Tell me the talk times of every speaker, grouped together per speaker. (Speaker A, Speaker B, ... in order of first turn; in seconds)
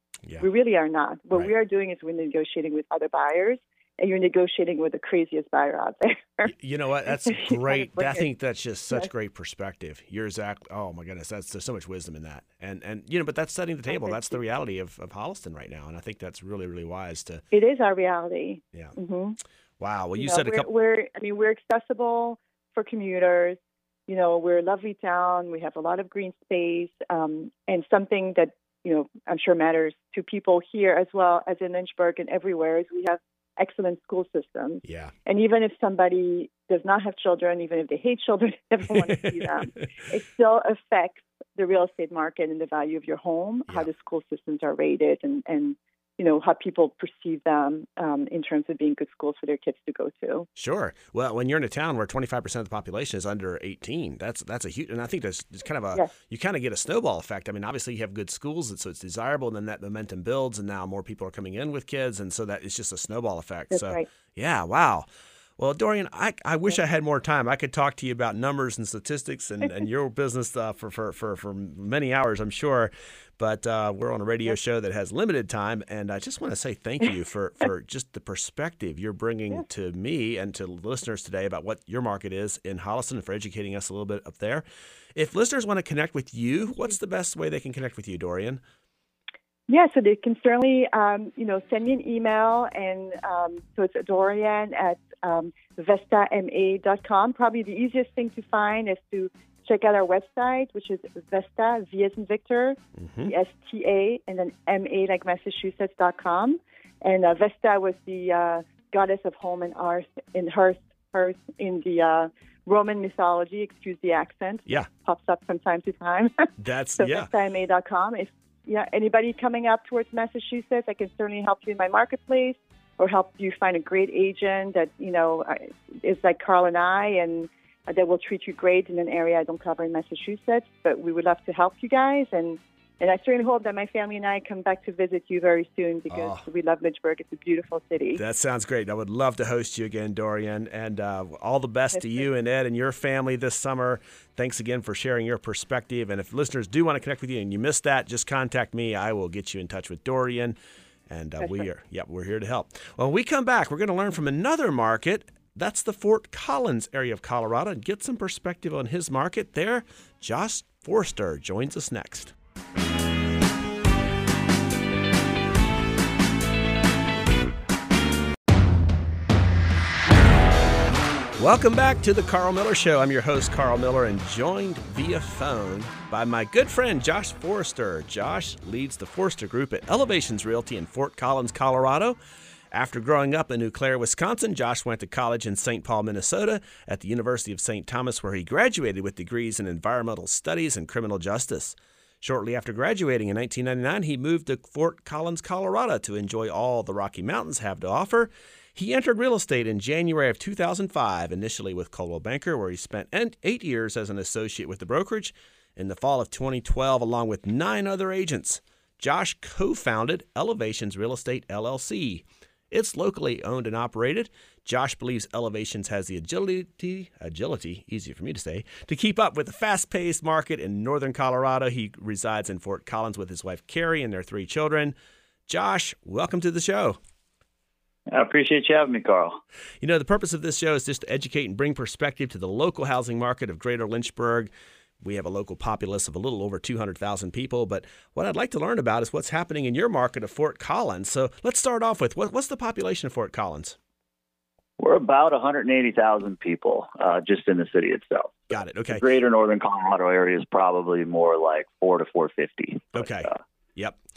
Speaker A: 0.4-6.5, 7.1-8.3, 13.9-14.4, 17.5-19.4, 20.2-50.5, 63.7-64.0, 89.7-138.2
Speaker B: 6.4-17.4, 19.8-20.7, 34.8-35.1, 39.1-39.5, 50.5-65.1, 65.6-84.6, 85.1-88.6, 103.0-103.3, 116.6-117.3, 136.1-136.4, 138.2-150.6, 151.1-162.3, 171.4-182.2, 182.7-224.9, 225.5-227.0, 229.8-234.5, 235.0-243.8, 248.5-249.0, 252.9-254.0
Speaker C: 228.1-229.4, 244.8-253.4